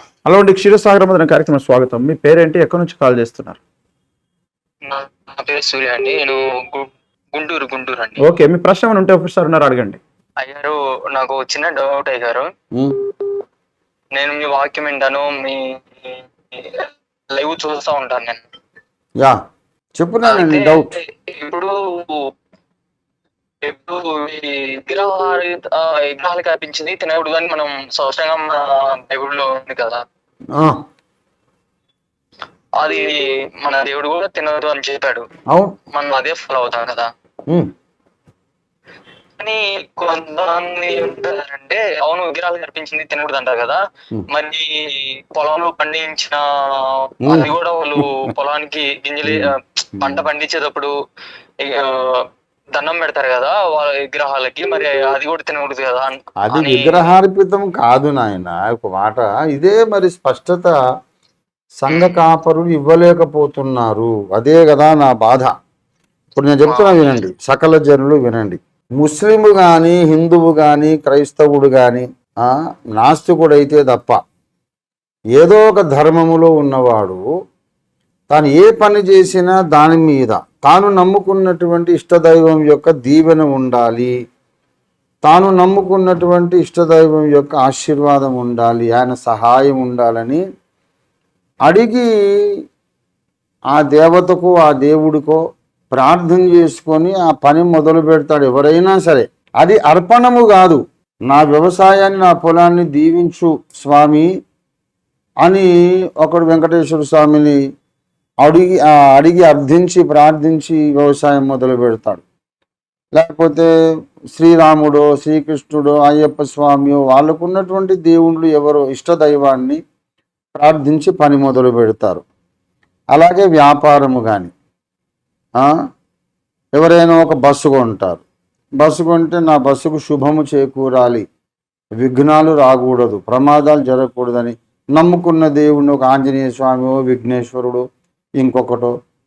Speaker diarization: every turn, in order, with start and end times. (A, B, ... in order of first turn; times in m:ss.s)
0:00.2-0:03.6 A
0:04.8-0:08.2 B
0:08.2-0:10.0 A
0:10.4-0:12.5 B
0:14.1-0:18.4 B
0:20.0-0:20.9 C
0:20.2-0:22.2 B
0:23.6-0:30.0 B
0:32.8-0:35.2 B
0:35.9-0:37.1 B
0:39.4-0:43.8 B
0:44.3-0:50.9 B
0:47.2-0:48.0 C
0:50.0-0:50.2 C
0:51.6-0:57.1 B
0:56.4-1:00.7 C
1:01.8-1:05.5 C
1:01.9-1:02.2 B
1:06.3-1:14.2 C
1:06.6-1:07.2 B
1:15.4-1:17.3 C
1:18.3-1:24.1 C
1:25.2-1:30.4 C
1:31.6-1:32.1 C
1:33.7-1:35.4 C
1:35.9-1:44.3 C
1:45.4-1:47.6 C
1:48.4-1:52.2 C
1:53.2-1:53.7 C
1:54.3-1:59.8 C
2:00.6-2:02.2 C
2:03.1-2:04.5 C
2:06.8-2:08.2 C
2:08.8-2:11.2 C
2:12.0-2:17.8 C
2:18.4-2:18.9 C